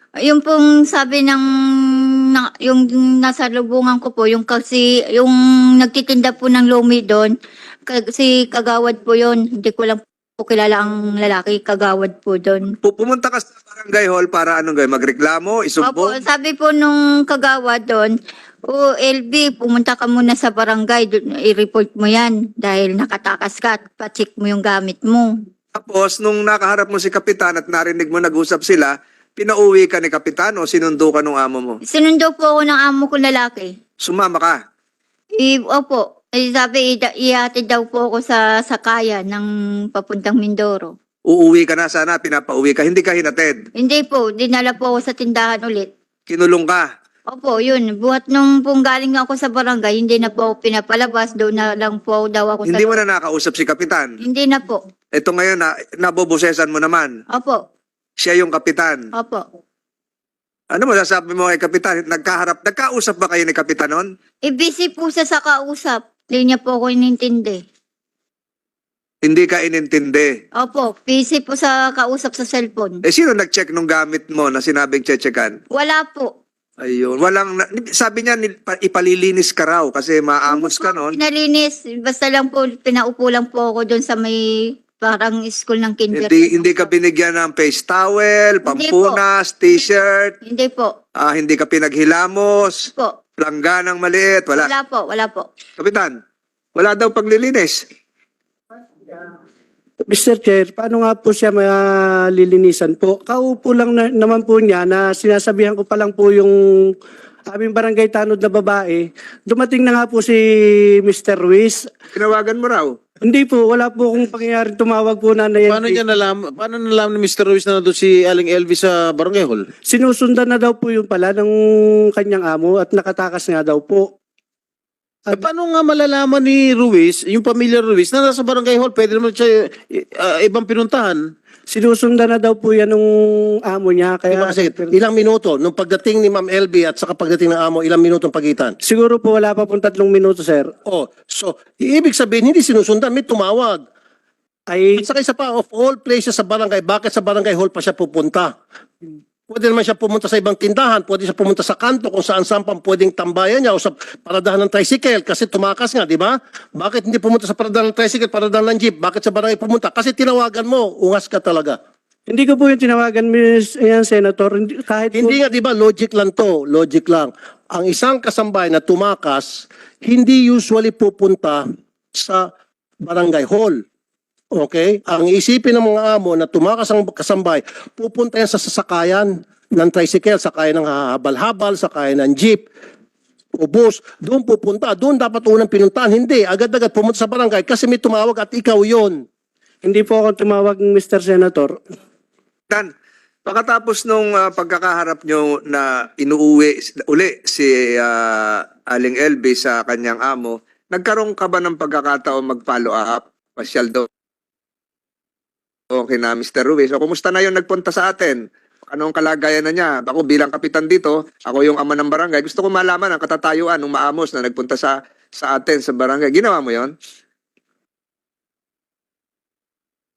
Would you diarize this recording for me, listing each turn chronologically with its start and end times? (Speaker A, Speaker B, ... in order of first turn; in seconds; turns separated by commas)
Speaker A: 0.2-7.3, Speaker A: 7.9-12.7, Speaker B: 12.8-16.2, Speaker A: 15.8-18.1, Speaker A: 18.7-25.3, Speaker B: 25.7-31.8, Speaker A: 31.9-33.7, Speaker B: 34.0-34.6, Speaker A: 35.4-41.0, Speaker B: 41.3-43.6, Speaker A: 43.8-45.9, Speaker B: 46.3-46.9, Speaker A: 47.3-53.0, Speaker B: 52.6-54.1, Speaker A: 54.2-54.8, Speaker B: 55.1-57.1, Speaker A: 57.3-57.6, Speaker B: 58.2-59.0, Speaker A: 59.1-59.5, Speaker B: 60.7-64.1, Speaker A: 64.4-67.6, Speaker B: 69.2-70.3, Speaker A: 70.6-73.0, Speaker B: 73.0-75.6, Speaker A: 75.7-76.3, Speaker B: 76.8-81.2, Speaker A: 80.5-86.9, Speaker B: 86.1-90.3, Speaker A: 88.7-89.2, Speaker A: 90.4-91.0, Speaker B: 91.2-94.7, Speaker A: 94.5-95.5, Speaker B: 95.8-96.2, Speaker B: 96.8-97.8, Speaker C: 100.1-106.9, Speaker C: 107.5-111.9, Speaker B: 112.1-112.9, Speaker C: 113.2-116.0, Speaker D: 115.7-119.7, Speaker C: 119.9-124.1, Speaker D: 125.3-131.2, Speaker C: 131.7-134.9, Speaker E: 134.3-138.8, Speaker C: 138.8-140.7, Speaker E: 140.8-143.8, Speaker C: 144.7-145.0, Speaker E: 145.0-148.5, Speaker E: 149.5-161.8, Speaker C: 162.3-165.4, Speaker E: 165.1-172.5, Speaker E: 173.0-173.8, Speaker E: 174.5-182.7, Speaker E: 183.6-189.2, Speaker C: 189.8-191.8, Speaker B: 193.4-204.1, Speaker B: 205.9-216.9